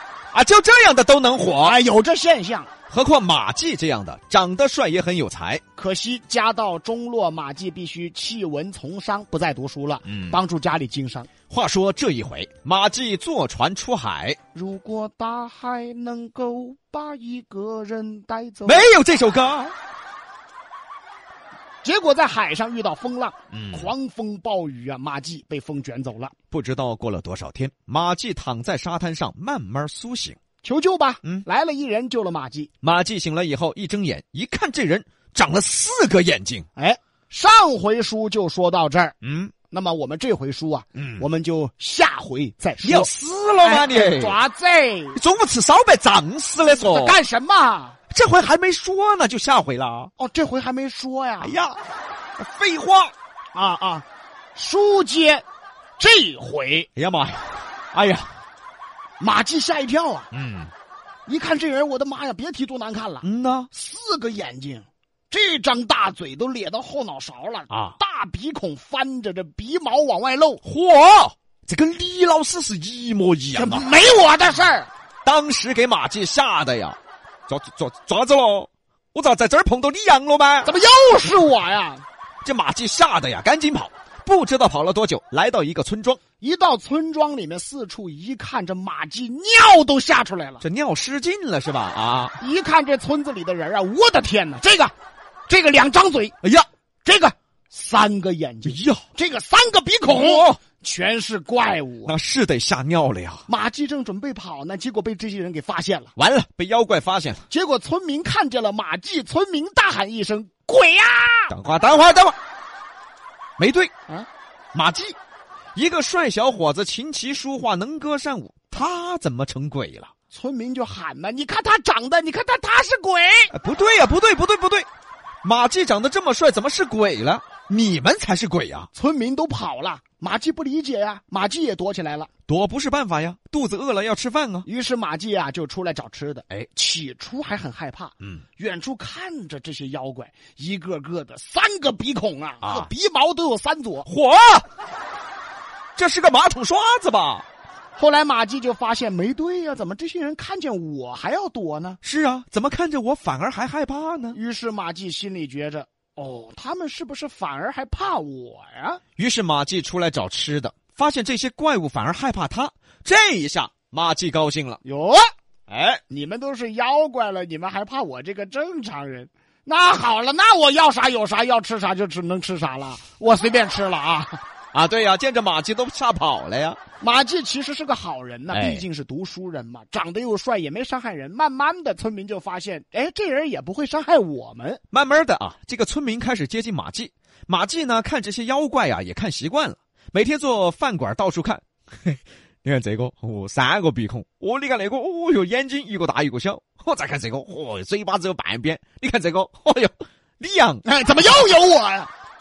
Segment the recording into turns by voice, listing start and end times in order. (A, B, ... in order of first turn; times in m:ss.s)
0:00.3-0:01.8 A
0:01.6-0:02.7 B
0:02.9-0:05.6 A
0:05.8-0:11.3 B
0:10.0-0:10.4 A
0:11.5-0:14.4 A
0:14.5-0:18.9 B
0:18.6-0:19.7 A
0:21.8-0:26.3 B
0:23.5-0:23.9 A
0:26.5-0:30.4 A
0:30.6-0:32.7 B
0:32.8-0:36.6 A
0:36.8-0:39.1 B
0:39.2-0:39.5 A
0:39.7-0:45.2 B
0:41.0-0:41.3 A
0:42.8-0:44.4 A
0:45.1-0:47.2 A
0:46.6-0:48.0 B
0:48.1-0:50.1 A
0:50.2-0:51.6 B
0:51.4-0:51.8 A
0:52.4-0:53.1 A
0:53.6-0:55.4 B
0:56.0-0:56.9 B
0:57.0-0:58.3 A
0:59.2-1:00.3 B
1:00.3-1:00.7 A
1:01.3-1:10.6 B
1:03.2-1:03.7 A
1:07.7-1:08.0 A
1:10.6-1:13.9 A
1:13.6-1:14.9 B
1:15.2-1:17.0 A
1:17.5-1:20.7 A
1:20.6-1:22.0 B
1:22.4-1:26.2 A
1:26.4-1:30.6 B
1:30.6-1:32.4 A
1:32.4-1:34.9 B
1:35.5-1:36.3 B
1:36.4-1:36.7 A
1:37.0-1:42.1 B
1:38.6-1:39.0 A
1:40.1-1:40.6 A
1:42.0-1:43.5 A
1:43.5-1:46.1 B
1:46.2-1:47.5 A
1:47.5-1:51.5 B
1:51.5-1:52.4 A
1:53.6-1:53.9 A
1:54.7-1:55.2 A
1:55.7-2:00.1 A
2:00.3-2:03.5 B
2:03.5-2:04.9 A
2:05.4-2:08.9 A
2:08.9-2:12.3 B
2:12.5-2:14.7 A
2:14.6-2:24.1 B
2:22.6-2:22.9 A
2:24.1-2:24.6 A
2:26.0-2:27.4 A
2:28.0-2:32.0 B
2:32.0-2:34.4 A
2:34.3-2:39.0 B
2:39.2-2:44.8 A
2:44.8-2:45.2 B
2:45.7-2:46.0 A
2:46.1-2:54.4 B
2:54.7-2:56.8 A
2:57.0-3:04.8 B
2:58.5-2:58.8 A
3:04.9-3:20.8 A
3:20.8-3:22.1 B